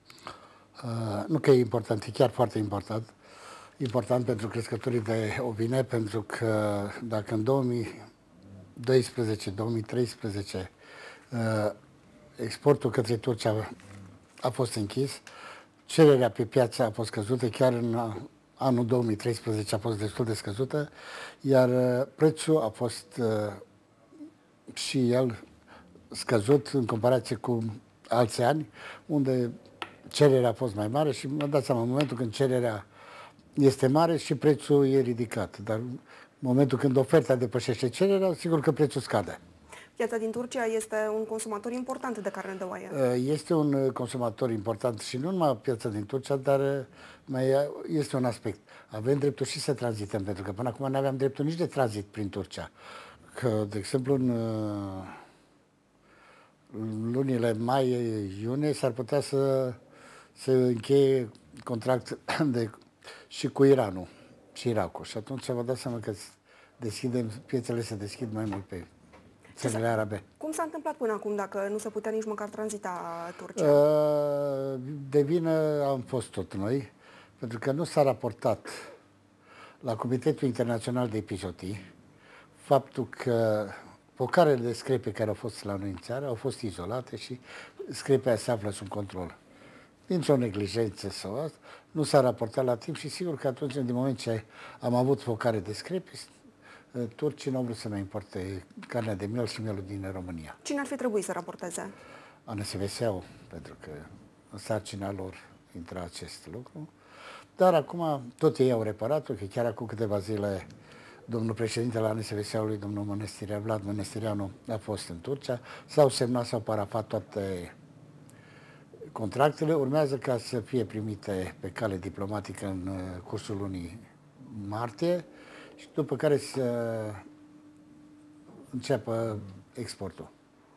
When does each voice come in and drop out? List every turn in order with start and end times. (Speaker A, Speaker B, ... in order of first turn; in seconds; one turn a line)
Speaker A: 0.8-3.1
Speaker A: 3.8-7.9
Speaker A: 8.8-10.7
Speaker A: 11.3-11.7
Speaker A: 12.4-13.7
Speaker A: 14.4-15.2
Speaker A: 15.8-20.9
Speaker A: 21.4-23.6
Speaker A: 24.7-25.4
Speaker A: 26.1-29.5
Speaker A: 30.1-32.8
Speaker A: 33.5-39.4
Speaker B: 40.0-43.0
Speaker A: 42.9-52.7
Speaker A: 53.3-55.2
Speaker A: 56.7-59.8
Speaker A: 60.4-62.7
Speaker A: 63.3-68.9
Speaker A: 69.6-70.2
Speaker B: 69.6-69.8
Speaker B: 70.4-73.8
Speaker A: 73.5-78.9
Speaker A: 79.8-81.8
Speaker A: 82.6-89.3
Speaker A: 90.1-96.3
Speaker A: 96.9-100.6
Speaker B: 100.6-101.9
Speaker A: 102.5-106.9
Speaker A: 107.6-110.7
Speaker A: 111.3-117.7
Speaker A: 119.1-127.2
Speaker A: 128.7-130.3